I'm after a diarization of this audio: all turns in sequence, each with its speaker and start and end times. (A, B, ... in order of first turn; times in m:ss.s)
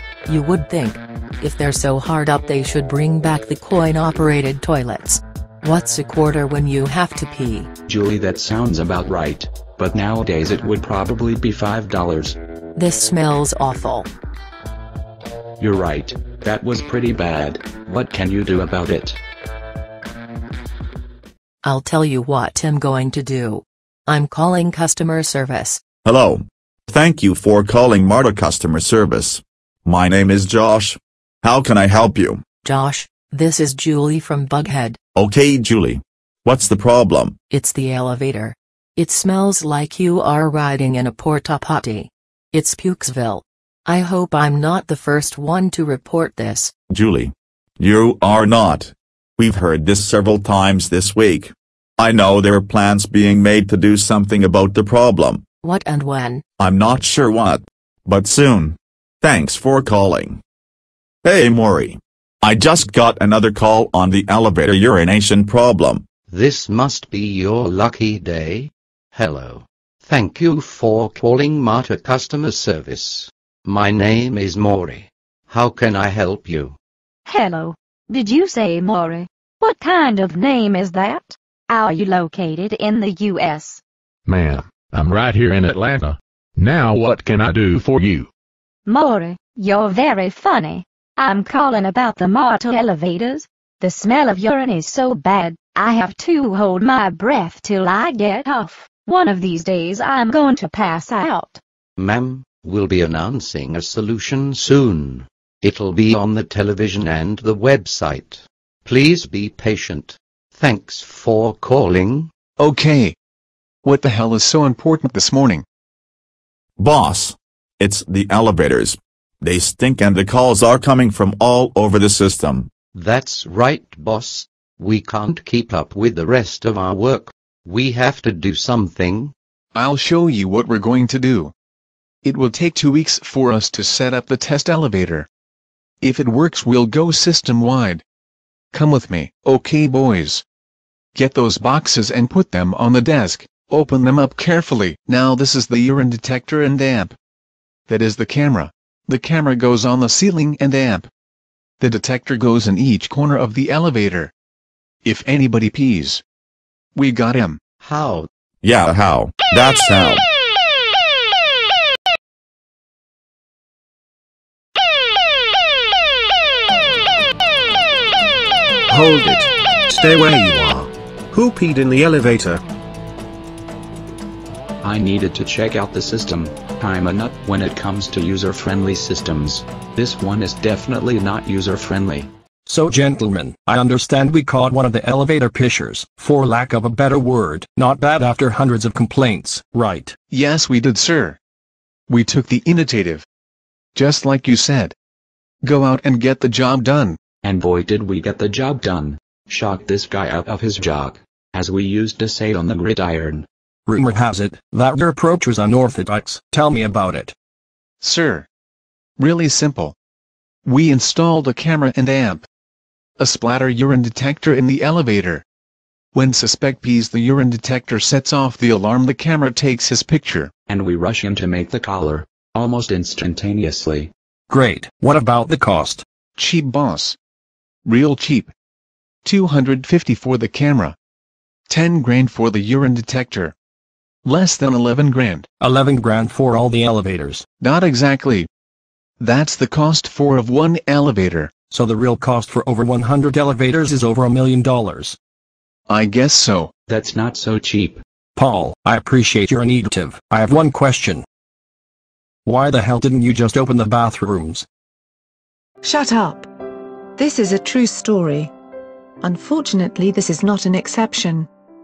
0:00.2-0:07.7 A
0:07.9-0:12.4 B
0:12.7-0:14.1 A
0:15.6-0:19.2 B
0:21.6-0:25.8 A
0:26.0-0:32.4 C
0:32.6-0:35.0 A
0:35.1-0:37.3 C
0:37.5-0:46.7 A
0:46.9-0:55.4 C
0:55.6-0:56.4 A
0:56.6-1:00.4 C
1:01.2-1:06.0 C
1:06.3-1:16.7 D
1:17.2-1:23.8 E
1:24.3-1:28.3 F
1:28.8-1:41.6 E
1:42.0-1:52.3 D
1:52.6-1:53.2 G
1:53.8-1:55.6 G
1:56.8-2:02.7 C
2:02.9-2:09.3 D
2:09.7-2:11.5 G
2:12.2-2:15.3 G
2:16.0-2:18.0 G
2:18.7-2:20.4 G
2:21.1-2:27.1 G
2:27.9-2:31.1 G
2:31.8-2:34.3 G
2:35.0-2:36.2 G
2:36.9-2:37.6 G
2:37.8-2:38.3 D
2:38.6-2:40.2 C
2:48.9-2:52.6 H
2:54.8-3:02.3 B
3:02.6-3:10.2 I
3:10.3-3:11.4 G
3:12.1-3:13.2 G
3:13.9-3:14.9 G
3:15.6-3:17.2 G
3:17.4-3:23.4 B
3:23.8-3:27.3 I
3:28.0-3:28.5 G
3:29.2-3:29.9 G
3:30.6-3:32.4 G
3:33.2-3:35.4 G
3:36.1-3:40.5 G
3:40.7-3:44.1 B
3:44.5-3:46.0 I
3:46.4-3:47.2 G
3:47.8-3:48.5 G
3:49.2-3:51.0 G
3:51.7-3:53.5 G
3:54.2-3:55.5 G
3:55.6-3:57.4 I
3:57.6-3:58.5 G
3:59.2-4:01.5 G
4:01.7-4:05.2 I
4:05.9-4:06.7 G
4:06.9-4:08.0 B
4:08.4-4:11.2 I
4:12.4-4:14.6 I
4:15.8-4:16.5 J
4:17.2-4:18.5 J
4:19.2-4:21.5 J